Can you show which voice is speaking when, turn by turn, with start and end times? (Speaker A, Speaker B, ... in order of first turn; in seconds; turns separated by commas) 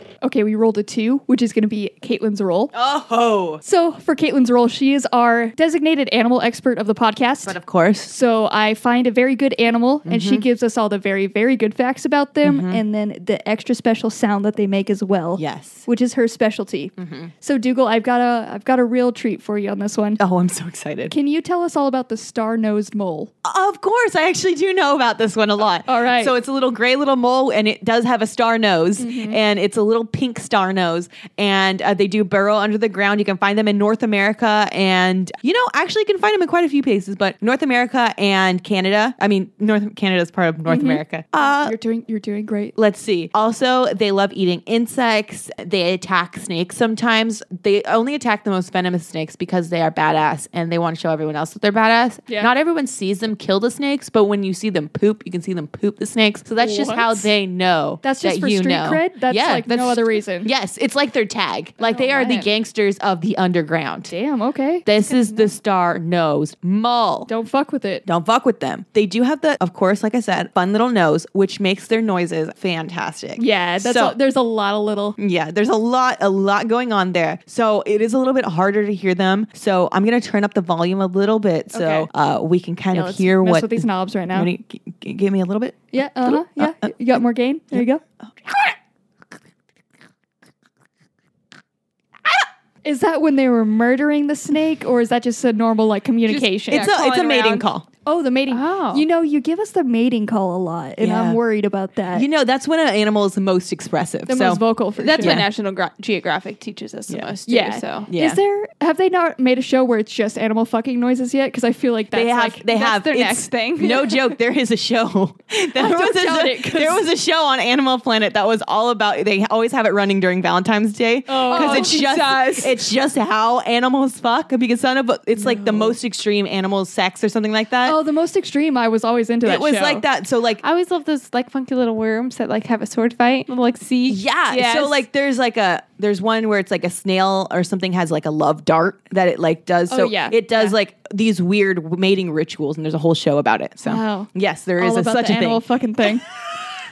Speaker A: 0.2-2.7, Speaker B: 2.7-3.6, Speaker A: 3.6-20.2, Speaker B: 7.5-8.1, Speaker B: 10.1-10.4, Speaker B: 12.4-12.8, Speaker B: 15.4-15.8, Speaker B: 17.0-17.3, Speaker B: 20.2-21.1, Speaker A: 21.1-23.3, Speaker B: 23.4-41.8, Speaker A: 25.9-26.3, Speaker A: 29.0-29.4, Speaker A: 40.7-42.8, Speaker B: 42.8-64.1, Speaker A: 56.6-57.3, Speaker A: 58.0-60.5, Speaker A: 61.8-62.5, Speaker A: 64.1-65.5, Speaker B: 64.9-67.3, Speaker A: 67.3-68.0, Speaker B: 68.1-74.2, Speaker A: 73.4-75.2, Speaker B: 75.2-86.9, Speaker A: 81.7-82.1, Speaker A: 82.9-84.5, Speaker A: 85.9-88.0, Speaker B: 87.7-88.8, Speaker A: 92.8-96.9, Speaker C: 96.3-97.7, Speaker B: 96.7-97.9, Speaker A: 98.0-102.3, Speaker C: 98.5-99.0, Speaker B: 101.0-101.4, Speaker B: 102.1-104.6, Speaker A: 104.3-105.4, Speaker C: 105.0-108.1, Speaker B: 105.2-105.5, Speaker A: 107.5-112.7, Speaker B: 108.1-108.4, Speaker B: 112.1-128.0, Speaker C: 112.7-114.3, Speaker A: 115.8-117.0, Speaker A: 121.3-122.0, Speaker C: 121.5-122.8, Speaker A: 125.4-126.0, Speaker A: 127.8-130.1, Speaker B: 129.4-130.6, Speaker C: 130.6-135.0, Speaker B: 134.1-145.7, Speaker A: 139.9-140.7, Speaker A: 143.8-146.3